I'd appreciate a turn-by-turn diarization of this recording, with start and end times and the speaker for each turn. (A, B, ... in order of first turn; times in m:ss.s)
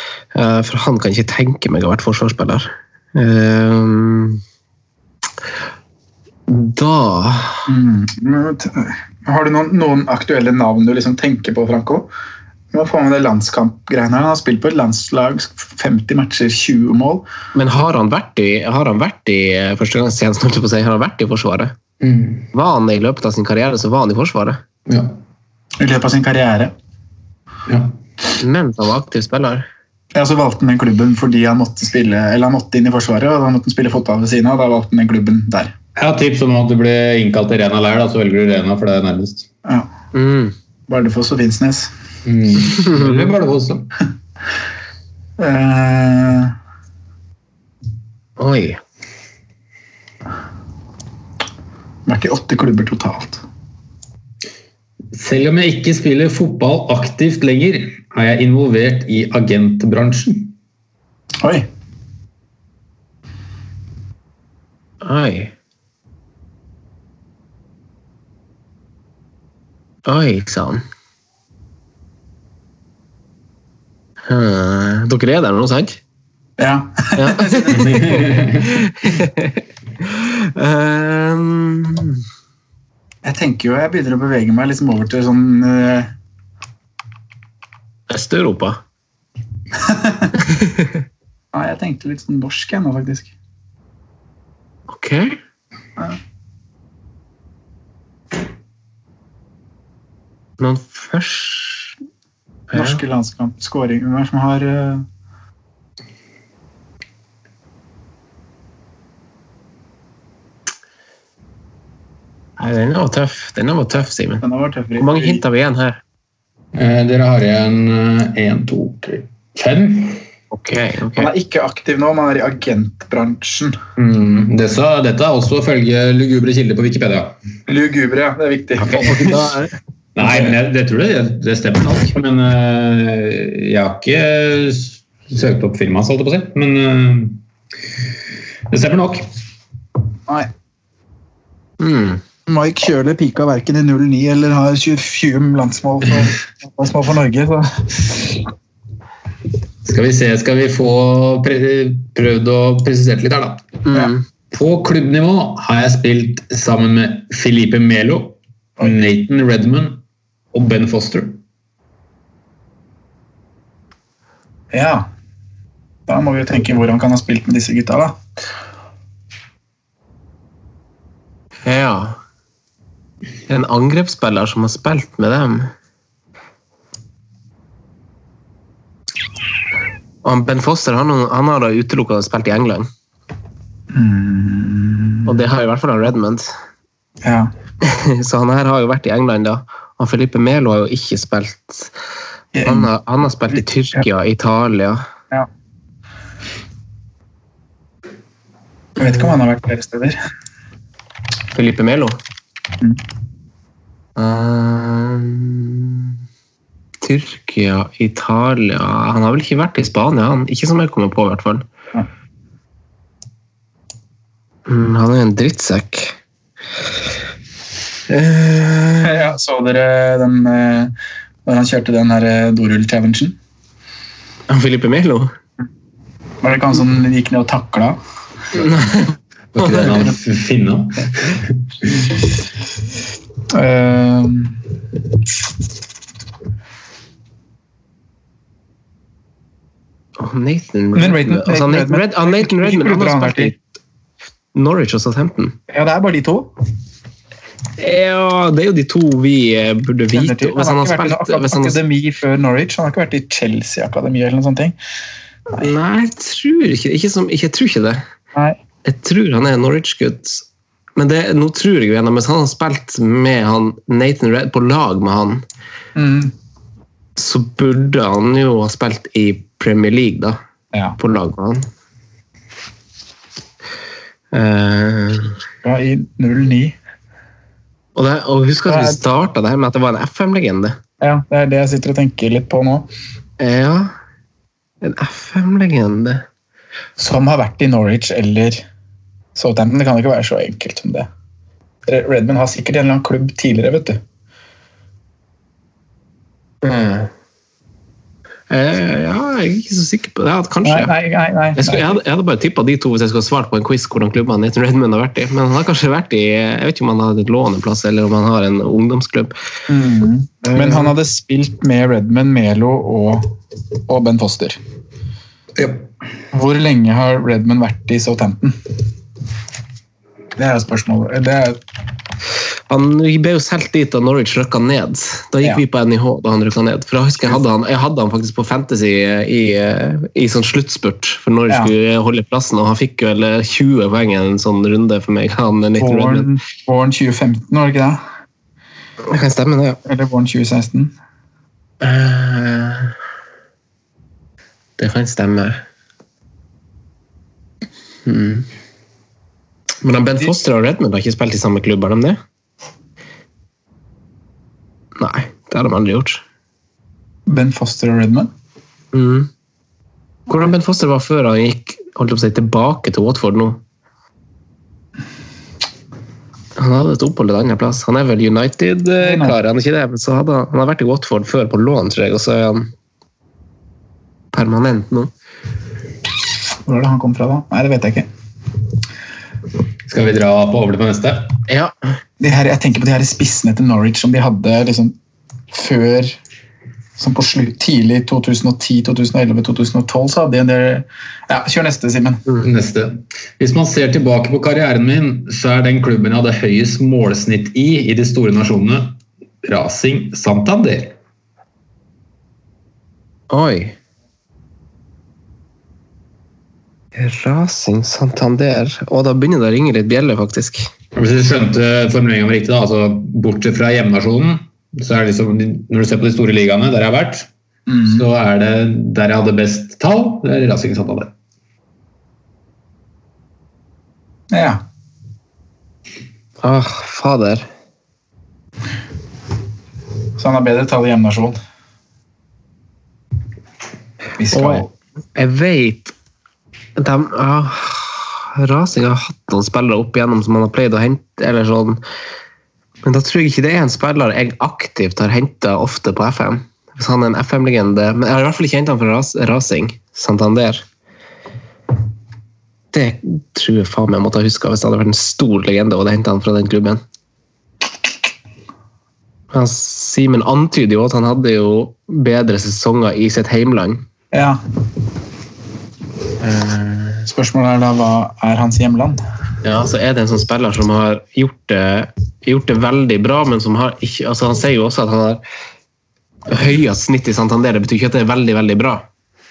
0:00.3-0:04.4 A
0:06.5-0:07.7 A
0:07.7-0:12.1 B
0:12.7-0:17.3 B
0:17.5-0:21.7 A
0:22.0-0:22.5 C
0:22.5-0:24.6 A
0:24.9-0:25.2 C
0:25.8-0:26.7 B
0:27.7-0:27.9 C
0:28.4-0:29.7 A
0:30.1-0:35.7 B
0:36.0-0:39.5 C
0:39.6-0:39.9 B
0:40.1-0:40.5 A
0:40.9-0:41.9 B
0:42.2-0:43.9 C
0:42.9-0:43.3 A
0:45.4-0:46.5 B
0:48.4-0:48.8 A
0:52.1-0:53.4 B
0:55.1-1:00.6 C
1:01.4-1:01.7 B
1:05.0-1:05.5 A
1:10.1-1:10.8 A
1:14.3-1:16.0 A
1:16.6-1:18.3 B
1:17.2-1:22.2 A
1:17.7-1:18.8 C
1:23.2-1:26.1 B
1:28.1-1:28.8 A
1:29.8-1:30.3 B
1:30.6-1:30.9 A
1:31.5-1:33.3 B
1:34.9-1:35.4 A
1:40.6-1:41.9 A
1:42.7-1:43.0 A
1:42.7-1:45.0 B
1:52.6-1:54.4 A
1:54.4-1:55.4 B
1:55.0-1:56.0 A
1:56.7-2:00.2 C
2:00.5-2:01.3 A
2:01.2-2:03.8 B
2:04.0-2:07.4 C
2:07.7-2:09.5 B
2:08.8-2:09.7 A
2:10.2-2:17.4 C
2:18.7-2:19.3 C
2:21.8-2:22.2 A
2:22.5-2:28.4 B
2:29.8-2:33.7 C
2:33.8-2:34.2 A
2:34.5-2:40.0 C
2:40.5-2:41.4 C
2:44.7-2:45.1 B
2:46.1-2:48.2 B
2:51.7-2:52.2 A
2:53.5-2:55.7 A
3:00.2-3:02.9 A
3:03.9-3:05.3 B
3:05.2-3:06.5 A
3:07.2-3:07.5 B
3:07.8-3:11.9 A
3:12.5-3:12.9 B
3:12.7-3:15.0 A
3:19.0-3:20.2 B
3:21.5-3:22.2 A
3:24.2-3:26.1 A
3:27.0-3:31.6 A
3:34.7-3:36.2 A
3:38.1-3:39.2 A
3:39.0-3:40.9 B
3:41.4-3:43.4 B
3:44.5-3:45.3 A
3:46.4-3:48.0 B
3:48.5-3:50.1 A
3:49.5-3:52.1 C
3:53.5-3:54.6 B
4:00.2-4:03.6 A
4:01.0-4:03.5 B
4:04.5-4:05.6 A
4:05.7-4:06.5 B
4:07.8-4:11.8 A
4:10.1-4:14.8 B
4:15.6-4:18.0 A
4:18.8-4:20.4 A
4:21.0-4:25.4 A
4:26.0-4:26.3 B
4:27.2-4:30.4 A
4:31.0-4:31.7 A
4:34.3-4:35.3 A
4:35.6-4:36.8 B
4:38.0-4:40.8 A
4:38.7-4:39.0 B
4:41.0-4:42.9 B
4:43.4-4:43.9 A
4:44.8-4:46.2 A
4:47.0-4:48.6 B
4:49.4-4:51.1 B
4:51.9-4:54.0 B
4:56.6-4:57.1 A
4:58.5-5:00.9 A
5:00.6-5:02.0 B
5:01.6-5:09.3 A
5:09.7-5:14.6 B
5:10.5-5:10.9 A
5:15.6-5:15.9 C
5:16.3-5:18.6 B
5:20.4-5:21.6 B
5:22.7-5:36.3 A
5:35.8-5:38.0 B
5:39.1-5:39.8 A
5:39.8-5:40.9 B
5:41.8-5:42.9 A
5:44.8-5:45.6 A
5:48.1-5:48.5 A
5:49.8-5:52.2 A
5:55.0-5:56.2 A
5:57.3-5:58.3 B
5:58.9-5:59.3 A
6:00.3-6:03.6 A
6:06.6-6:12.7 A
6:09.0-6:09.4 B
6:14.3-6:15.1 A
6:16.7-6:18.1 B
6:19.9-6:21.4 C
6:21.5-6:21.7 A
6:22.2-6:25.0 B
6:25.5-6:26.2 B
6:27.0-6:32.2 B
6:32.4-6:41.0 C
6:43.3-6:43.8 A
6:47.0-6:50.7 A
6:51.0-6:57.3 C
6:57.7-6:58.0 B
6:57.9-7:01.1 C
7:04.3-7:04.6 B
7:06.4-7:07.5 A
7:10.2-7:11.4 B
7:14.2-7:14.7 B
7:14.3-7:15.9 A
7:16.8-7:21.8 A
7:22.8-7:30.6 A
7:32.7-7:36.8 A
7:39.3-7:43.8 A
7:44.1-7:44.4 B
7:46.2-7:47.1 A
7:47.1-7:49.0 B
7:49.4-7:55.2 A
7:56.3-7:58.8 A